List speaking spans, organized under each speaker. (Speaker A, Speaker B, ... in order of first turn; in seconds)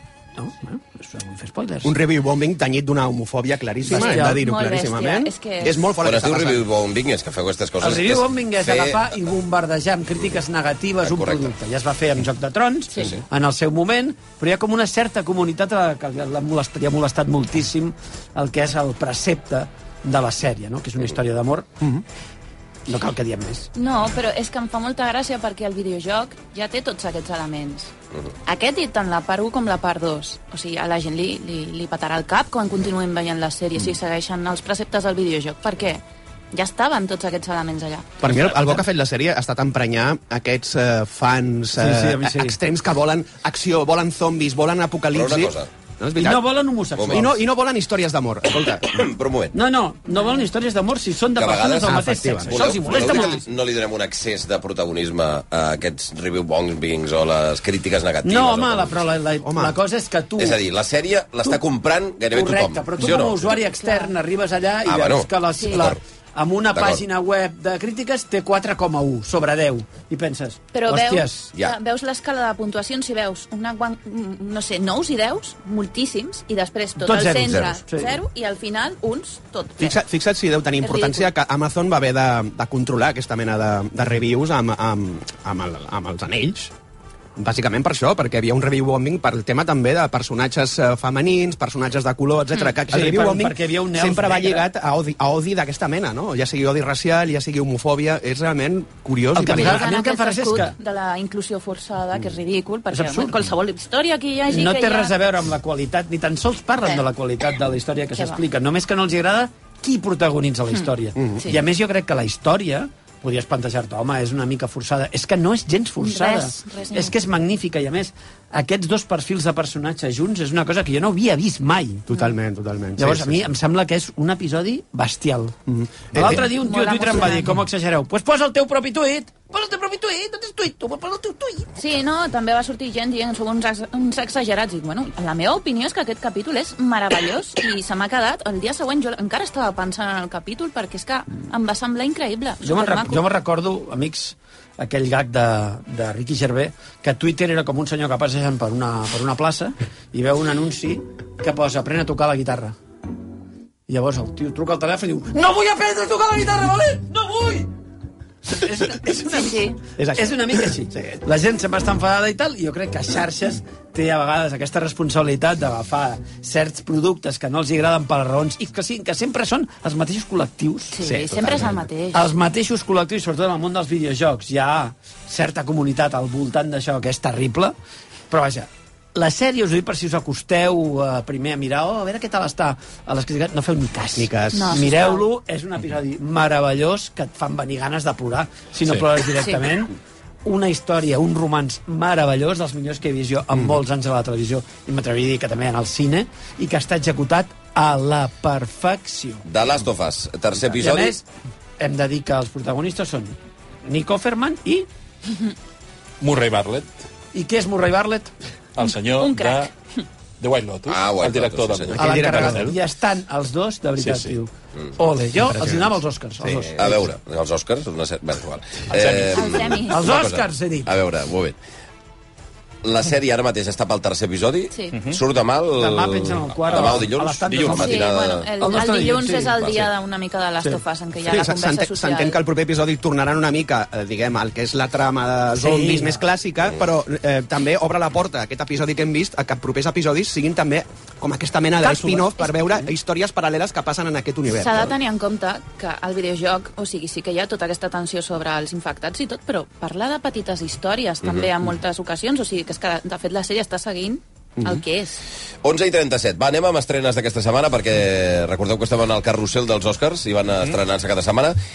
Speaker A: 0.4-1.9, 3.9-4.4, 7.8-21.7, 22.9-23.7, 41.8-42.6, 46.2-47.4, 49.5-53.4, 58.2-60.6, 62.3-71.5, 77.0-78.2, 92.9-94.7, 99.3-100.8, 102.9-103.4, 104.5-122.1, 123.0-125.6, 126.1-131.7, 142.6-152.8, 153.9-157.7, 158.5-171.0, 172.1-177.8, 178.3-199.4, 200.8-201.3, 201.8-204.9, 207.3-208.3, 212.0-216.8, 219.9-220.9, 225.8-228.1, 228.6-229.8, 235.6-236.2
Speaker B: 1.8-6.7, 38.2-49.1, 51.9-52.9, 59.4-59.8, 79.8-86.7, 87.4-99.9, 111.2-111.5, 122.1-123.5, 125.7-126.4, 160.0-161.2, 171.0-171.8, 184.2-184.8, 211.9-212.7, 231.2-244.9
Speaker C: 3.9-5.9, 23.8-27.9, 28.5-38.1, 53.0-53.3, 63.6-64.1, 65.6-65.8, 70.7-80.0, 80.8-81.3, 99.4-105.2, 108.1-108.4, 116.0-117.2, 126.4-127.6, 131.8-143.3, 159.3-159.8, 170.9-172.3, 184.5-185.2, 209.2-209.7, 219.3-220.1, 224.7-225.0, 227.7-232.4, 242.0-242.6, 244.5-255.2
Speaker D: 6.0-9.1, 11.0-11.5, 13.0-13.2, 38.2-38.5, 45.1-45.7, 47.0-47.3, 48.9-49.5, 51.4-59.1, 60.4-63.6, 64.9-66.0, 66.7-67.0, 199.5-201.2, 210.9-212.0, 216.5-221.6, 222.8-228.8, 255.6-261.6
Speaker E: 206.2-207.0, 208.8-209.7, 210.4-212.8, 214.0-214.4, 218.9-219.5, 224.9-225.2, 227.5-227.8